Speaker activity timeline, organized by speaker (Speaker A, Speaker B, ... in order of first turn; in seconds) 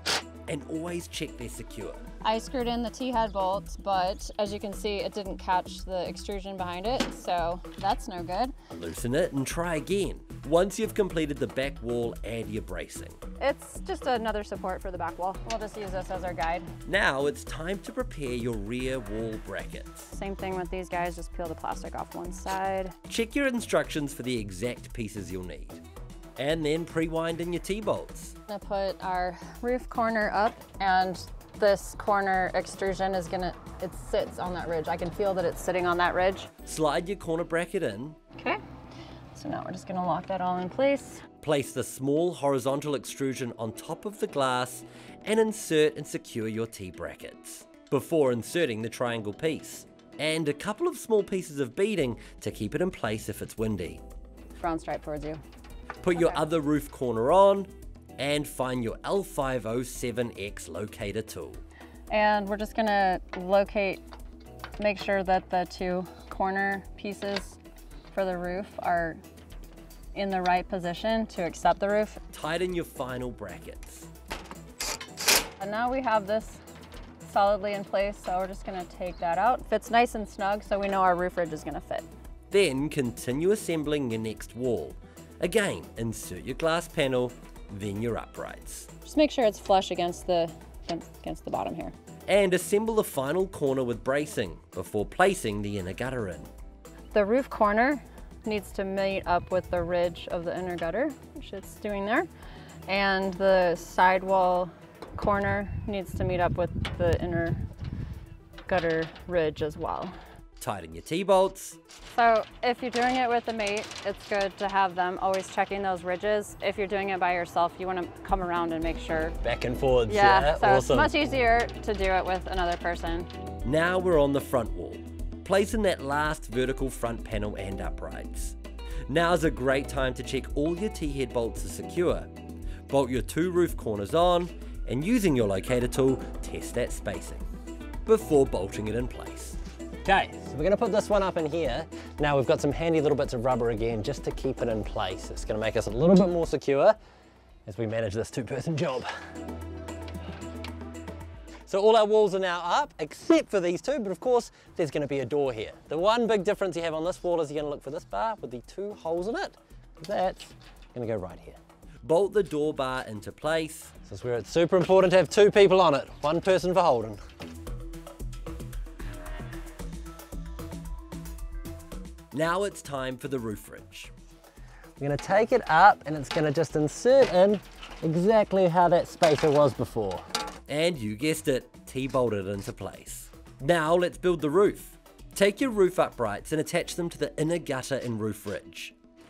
Speaker A: 0.5-2.0, 8.7-13.2, 16.9-20.1, 23.1-25.8, 26.4-28.3, 36.6-38.2, 41.4-54.0, 56.0-61.6, 72.3-74.1, 82.5-88.9, 92.3-96.5, 110.6-111.8, 119.8-121.0, 123.6-128.6, 129.1-132.3, 132.9-137.5, 138.1-139.6, 162.0-164.0, 172.3-174.1, 180.7-188.9
Speaker B: 2.2-8.5, 13.4-16.7, 20.1-22.9, 28.5-36.5, 39.3-41.2, 54.6-55.4, 62.1-64.0, 64.8-67.6, 68.1-69.2, 70.1-72.2, 75.6-76.6, 77.2-82.0, 89.0-91.9, 97.1-102.3, 102.9-107.6, 108.7-110.1, 112.0-119.3, 120.1-123.3
Speaker C: 120.3-121.0, 140.1-147.0, 147.7-149.1, 151.7-161.6, 164.0-167.2, 175.0-180.2